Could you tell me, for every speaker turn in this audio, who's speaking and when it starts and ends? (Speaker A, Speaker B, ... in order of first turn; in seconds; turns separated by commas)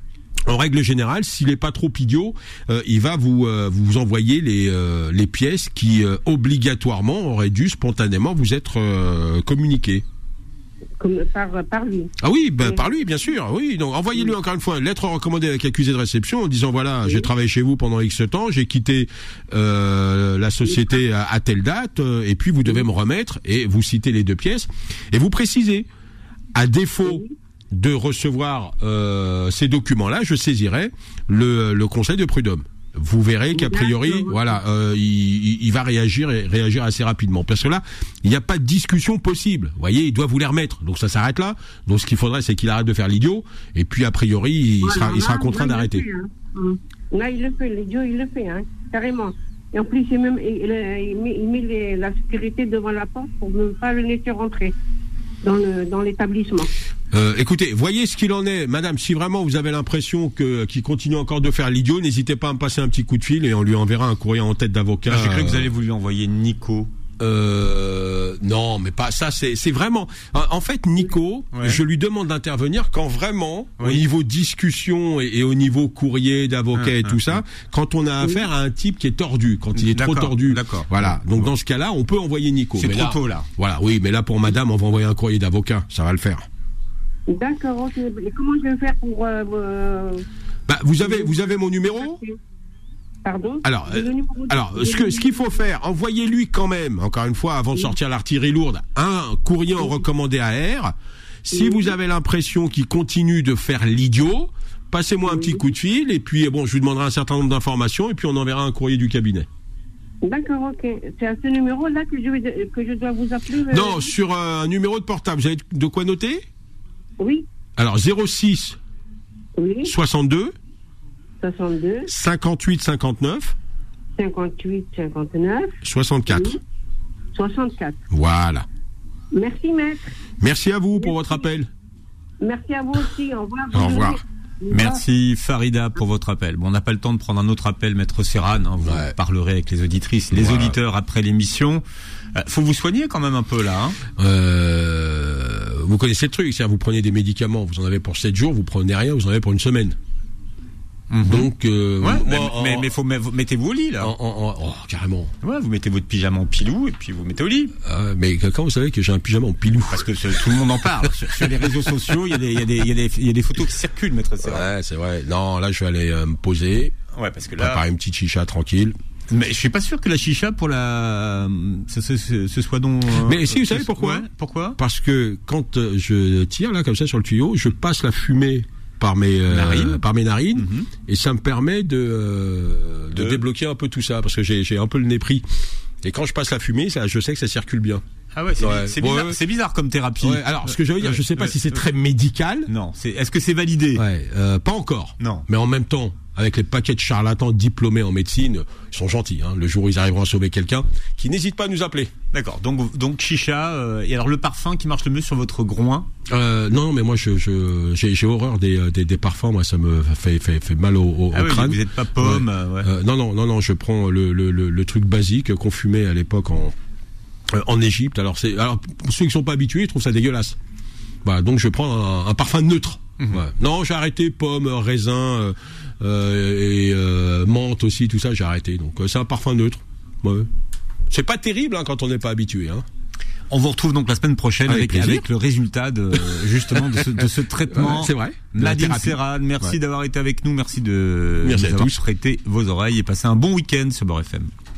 Speaker A: 0.5-10.0, Speaker B: 11.0-13.1, Speaker A: 12.2-25.9, Speaker B: 20.7-21.0, Speaker A: 26.5-46.0, Speaker B: 27.0-27.3, Speaker B: 33.5-34.6, Speaker B: 44.8-54.7, Speaker B: 55.4-56.7, Speaker A: 57.1-65.7, Speaker C: 65.1-66.9, Speaker A: 67.2-86.5, Speaker C: 71.5-71.8, Speaker C: 76.8-77.2, Speaker C: 79.7-81.5, Speaker C: 82.8-83.5, Speaker B: 87.3-90.2, Speaker A: 90.7-92.2, Speaker B: 91.0-92.4, Speaker B: 93.2-95.5, Speaker A: 93.6-100.9, Speaker A: 101.5-109.5, Speaker B: 101.5-101.9, Speaker B: 105.2-105.7, Speaker B: 110.2-114.1, Speaker A: 113.7-116.4, Speaker B: 117.2-117.5, Speaker A: 117.8-118.8, Speaker B: 119.6-119.9, Speaker A: 119.8-120.5, Speaker B: 121.4-122.1, Speaker A: 122.1-123.5, Speaker B: 124.2-126.6, Speaker A: 125.8-126.6, Speaker B: 127.3-128.0, Speaker A: 128.1-128.7, Speaker B: 129.3-130.1, Speaker A: 130.4-131.7, Speaker B: 131.0-131.4, Speaker B: 132.4-135.0, Speaker A: 133.7-134.2, Speaker C: 134.7-141.8, Speaker A: 138.8-139.1, Speaker A: 140.3-140.8, Speaker C: 142.3-144.0, Speaker A: 144.2-149.9, Speaker C: 151.1-151.5, Speaker A: 151.2-152.9, Speaker C: 152.0-154.1, Speaker A: 154.0-155.3, Speaker C: 155.4-157.8, Speaker A: 157.8-160.2, Speaker C: 159.9-164.7, Speaker A: 164.4-166.9, Speaker C: 167.1-167.8, Speaker A: 167.5-168.9, Speaker C: 169.3-174.8, Speaker A: 173.2-174.2, Speaker A: 174.8-185.4, Speaker C: 179.5-180.0, Speaker C: 180.6-180.9, Speaker C: 183.1-183.4, Speaker A: 186.0-188.0, Speaker C: 188.3-191.5, Speaker A: 188.6-189.4, Speaker A: 190.2-192.7, Speaker C: 192.7-194.0, Speaker A: 193.9-202.1, Speaker C: 195.2-195.4, Speaker C: 202.3-206.1, Speaker A: 206.3-216.7, Speaker C: 211.3-212.9, Speaker A: 217.5-220.6, Speaker A: 221.2-230.5, Speaker A: 231.1-232.8, Speaker C: 233.5-244.5, Speaker A: 234.7-235.2, Speaker A: 236.2-239.8, Speaker A: 241.4-241.9